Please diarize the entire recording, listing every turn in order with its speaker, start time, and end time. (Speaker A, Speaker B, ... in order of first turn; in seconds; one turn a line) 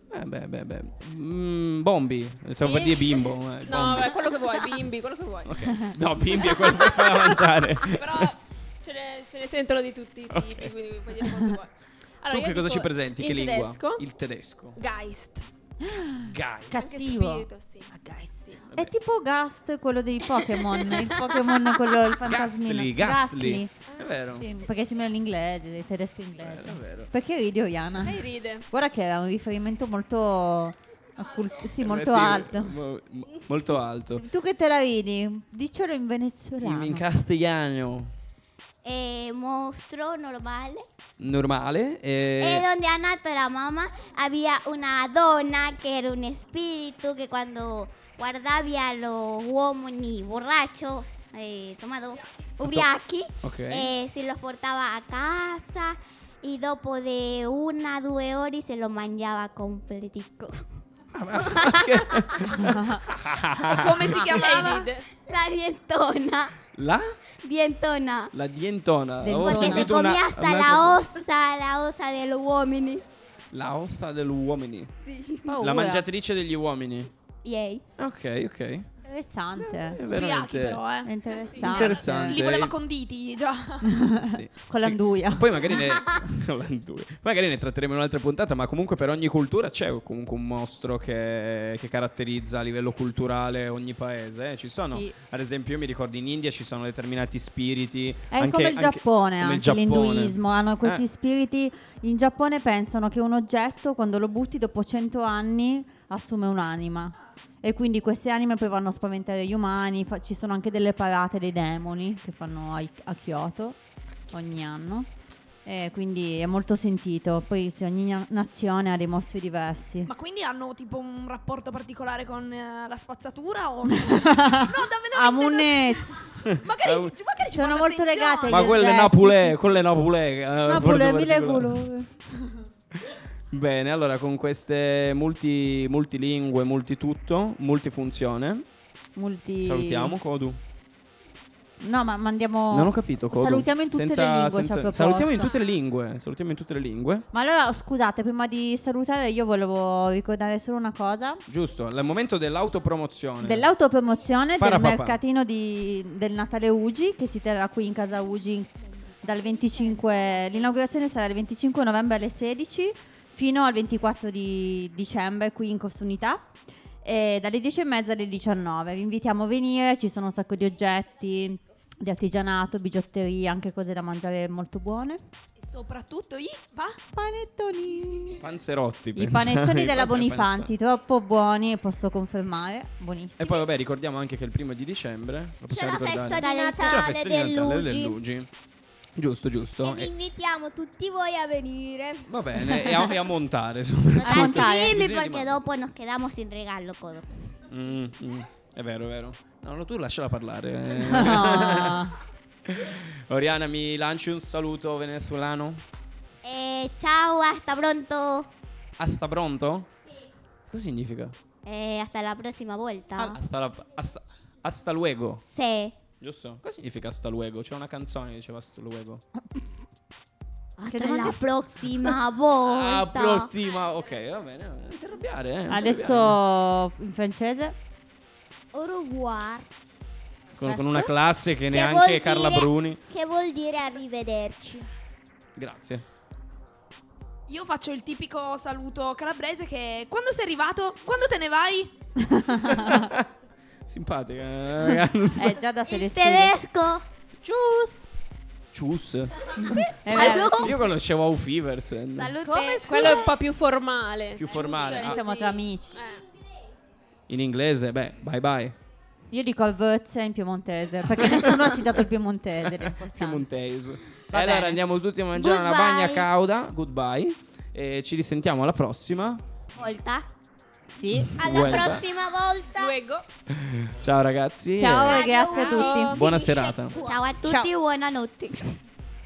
Speaker A: 0.1-4.3
Speaker B: 2.6-5.6
Speaker A: 5.5-8.3
Speaker B: 8.0-11.7
Speaker A: 10.3-10.7
Speaker B: 12.2-14.0
Speaker A: 12.3-14.8
Speaker B: 14.8-15.4
Speaker C: 15.8-23.7
Speaker A: 16.3-16.8
Speaker B: 16.7-17.9
Speaker A: 22.2-24.5
Speaker C: 24.4-32.8
Speaker A: 26.4-27.1
Speaker B: 28.0-28.6
Speaker A: 31.8-34.2
Speaker C: 34.2-37.0
Speaker A: 36.6-38.1
Speaker D: 38.8-40.9
Speaker A: 41.2-42.7
Speaker D: 42.4-60.6
Speaker A: 52.6-52.9
Speaker A: 53.4-53.9
Speaker A: 61.1-64.2
Speaker D: 61.5-61.8
Speaker C: 62.6-63.0
Speaker E: 63.7-64.9
Speaker C: 64.2-64.9
Speaker B: 64.3-65.1
Speaker D: 65.2-66.5
Speaker A: 66.8-67.1
Speaker D: 67.4-68.3
Speaker A: 68.3-71.1
Speaker C: 69.2-70.0
Speaker D: 69.4-73.0
Speaker A: 73.5-74.9
Speaker C: 75.5-76.1
Speaker A: 75.6-77.1
Speaker D: 77.4-77.8
Speaker A: 78.0-78.9
Speaker C: 79.1-80.0
Speaker A: 80.0-80.8
Speaker E: 80.1-84.0
Speaker C: 81.0-82.5
Speaker A: 81.6-82.8
Speaker C: 83.8-85.8
Speaker A: 84.3-101.0
Speaker C: 94.9-95.1
Speaker C: 98.3-113.8
Speaker C: 114.3-115.1
Speaker C: 115.7-120.1
Speaker E: 120.1-128.8
Speaker C: 124.0-126.5
Speaker A: 126.5-127.2
Speaker C: 127.5-129.6
Speaker A: 128.5-131.9
Speaker C: 130.7-132.2
Speaker A: 133.5-138.7
Speaker C: 139.2-140.2
Speaker A: 139.6-140.6
Speaker C: 141.8-145.5
Speaker A: 142.7-147.3
Speaker C: 147.3-151.4
Speaker A: 151.5-153.7
Speaker C: 153.4-158.7
Speaker A: 154.6-155.2
Speaker C: 159.2-166.5
Speaker C: 167.0-175.2
Speaker E: 175.6-177.0
Speaker C: 177.1-178.4
Speaker A: 178.4-180.7
Speaker C: 179.2-183.7
Speaker A: 183.4-188.5
Speaker F: 185.7-188.2
Speaker D: 186.3-187.0
Speaker A: 189.2-190.1
Speaker F: 189.8-192.3
Speaker A: 192.3-195.6
Speaker C: 192.7-193.1
Speaker D: 194.2-197.3
Speaker C: 194.2-195.0
Speaker A: 197.7-202.1
Speaker C: 201.0-202.2
Speaker A: 202.7-205.8
Speaker D: 206.4-208.5
Speaker A: 209.0-209.9
Speaker A: 210.7-211.4
Speaker D: 211.7-213.4
Speaker A: 213.3-215.4
Speaker D: 215.5-216.0
Speaker A: 216.2-219.2
Speaker D: 220.8-223.5
Speaker C: 220.9-221.4
Speaker A: 222.6-226.4
Speaker C: 225.7-227.8
Speaker F: 228.7-229.7
Speaker A: 230.6-233.0
Speaker C: 230.7-231.1
Speaker F: 231.7-234.9
Speaker D: 232.2-232.5
Speaker A: 235.6-236.0
Speaker E: 237.5-241.9
Speaker C: 242.2-243.1
Speaker A: 242.7-243.3
Speaker A: 243.9-245.6
Speaker C: 245.3-246.6
Speaker D: 245.9-247.0
Speaker A: 247.5-247.9
Speaker C: 247.6-247.9
Speaker A: 248.7-252.4
Speaker C: 249.6-250.8
Speaker D: 250.1-250.7
Speaker D: 252.2-253.1
Speaker C: 252.4-253.3
Speaker B: 252.9-256.2
Speaker A: 254.4-255.2
Speaker C: 254.5-255.9
Speaker A: 257.3-258.8
Speaker C: 259.3-263.4
Speaker A: 261.3-261.7
Speaker A: 262.7-269.4
Speaker C: 264.3-264.8
Speaker D: 265.4-266.2
Speaker D: 269.8-270.3
Speaker C: 270.9-271.3
Speaker F: 271.4-273.0
Speaker A: 271.4-272.0
Speaker B: 272.8-273.2
Speaker A: 273.5-275.3
Speaker C: 274.8-276.1
Speaker F: 275.1-277.3
Speaker B: 275.4-276.4
Speaker D: 275.6-276.3
Speaker A: 276.1-277.0
Speaker D: 277.0-278.8
Speaker C: 277.4-277.7